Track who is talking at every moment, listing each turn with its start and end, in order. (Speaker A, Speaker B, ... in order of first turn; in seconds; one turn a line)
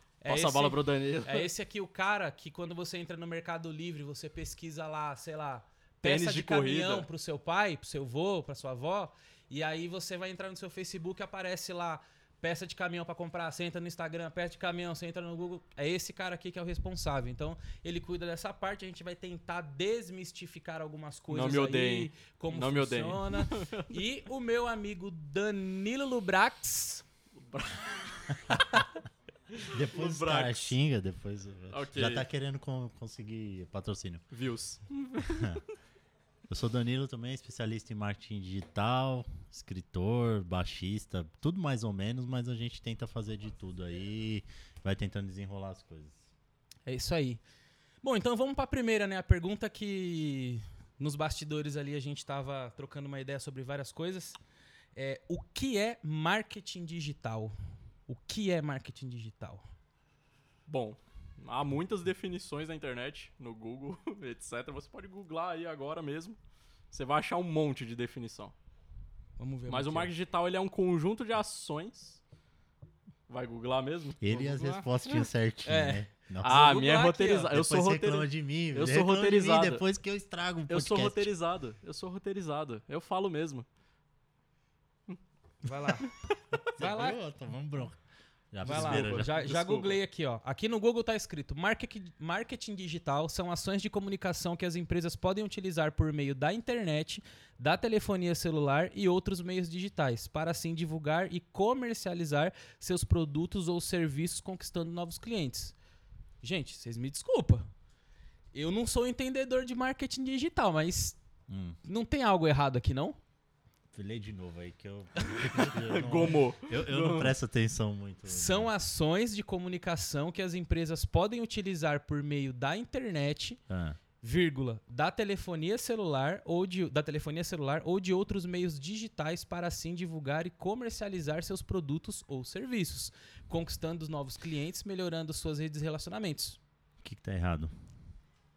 Speaker A: 0.2-27.1
Speaker B: 0.3-1.5
Speaker B: 6.0-7.1
Speaker B: 21.3-24.0
Speaker B: 27.4-28.9
Speaker B: 29.6-30.8
Speaker C: 29.6-34.2
Speaker B: 31.7-32.3
Speaker B: 34.3-35.6
Speaker C: 35.3-35.6
Speaker C: 36.5-46.2
Speaker A: 46.9-47.4
Speaker A: 48.0-54.4
Speaker A: 54.9-57.5
Speaker A: 58.1-59.6
Speaker B: 60.7-66.4
Speaker B: 66.9-68.5
Speaker A: 69.4-70.1
Speaker B: 69.7-72.2
Speaker B: 73.3-74.3
Speaker C: 74.2-76.6
Speaker A: 74.3-74.8
Speaker A: 75.6-77.5
Speaker B: 76.4-79.8
Speaker C: 77.5-81.3
Speaker B: 80.7-83.7
Speaker A: 85.6-86.1
Speaker C: 86.7-88.0
Speaker A: 86.8-87.2
Speaker C: 88.5-89.3
Speaker B: 88.6-90.0
Speaker A: 88.6-105.7
Speaker A: 106.4-107.7
Speaker A: 108.5-111.2
Speaker C: 111.5-111.8
Speaker A: 111.8-113.2
Speaker C: 113.9-118.7
Speaker A: 115.3-115.6
Speaker B: 115.6-117.3
Speaker A: 118.2-123.6
Speaker C: 123.7-124.0
Speaker A: 124.2-136.6
Speaker C: 137.0-137.7